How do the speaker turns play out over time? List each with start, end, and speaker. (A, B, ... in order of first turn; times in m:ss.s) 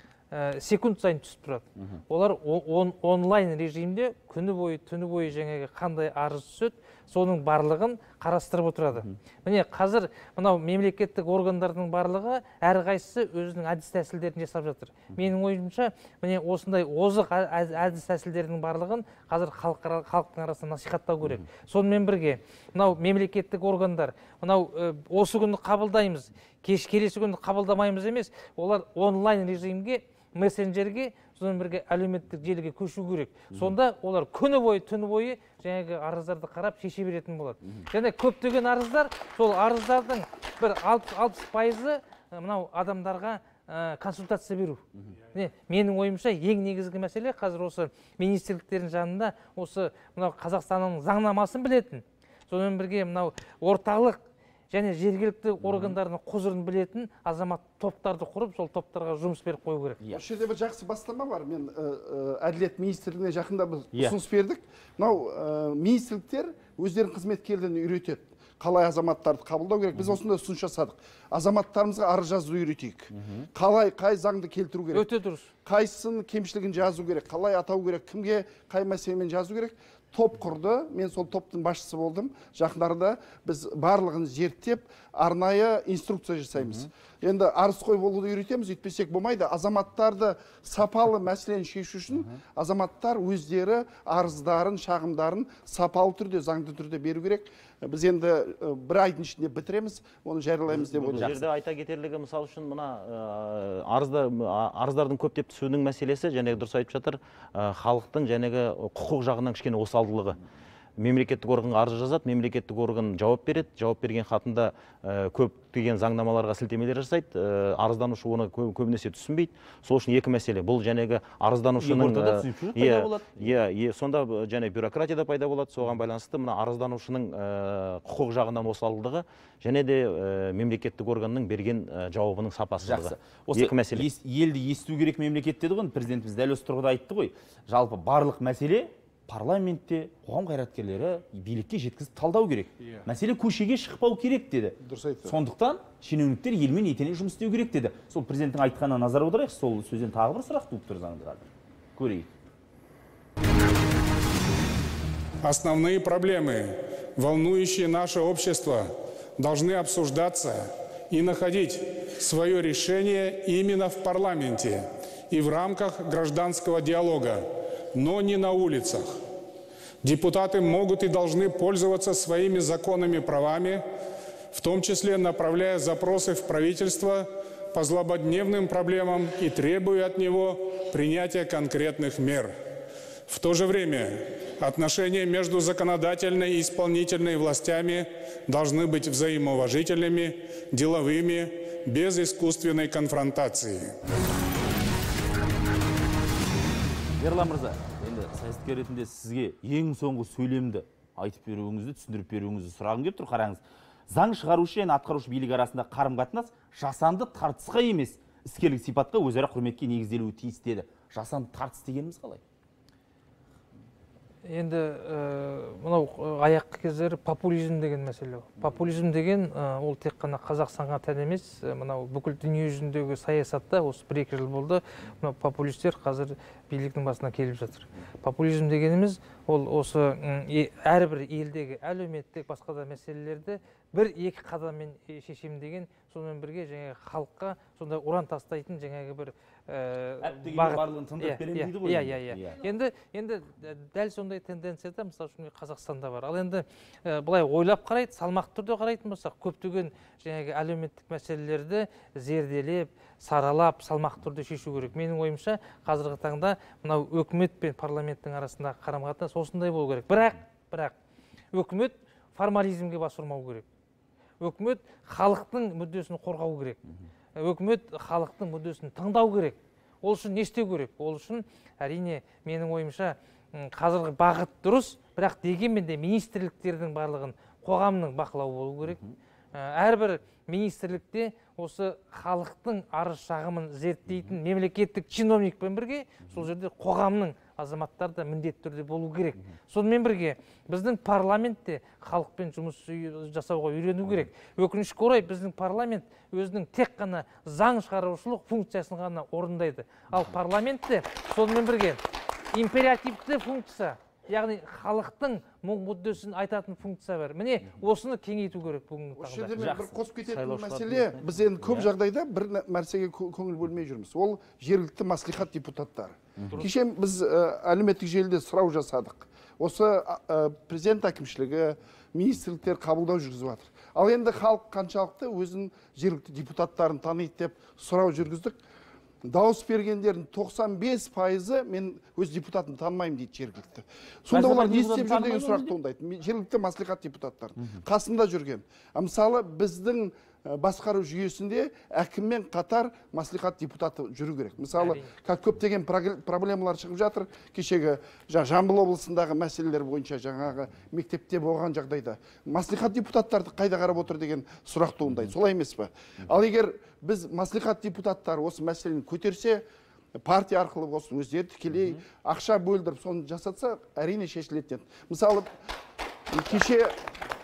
0:00.3-0:44.8 A
0:45.3-1:00.0 A
0:55.6-0:55.9 B
1:00.1-1:15.1 C
1:13.1-1:13.5 B
1:14.9-1:15.5 A
1:15.6-1:41.4 C
1:40.9-1:50.4 D
1:51.0-2:14.1 D
2:01.8-2:03.5 B
2:12.8-2:32.3 B
2:24.8-2:25.4 C
2:35.4-2:47.4 E
2:47.9-2:49.1 E
2:50.0-2:53.8 E
2:54.5-3:02.6 E
3:03.3-3:13.9 E
3:17.2-3:32.4 B
3:34.4-4:20.9 A
4:00.2-4:02.6 B
4:21.5-4:23.6 A
4:24.4-4:26.8 A
4:27.4-4:39.0 A
4:39.5-5:02.0 A
5:02.5-5:09.5 A
5:09.2-5:28.6 C
5:09.6-5:10.0 B
5:10.2-5:11.4 D
5:11.6-5:11.9 B
5:29.2-5:59.6 C
5:34.3-5:35.7 B
5:44.8-5:45.1 A
6:00.2-6:05.5 C
6:06.3-6:07.0 C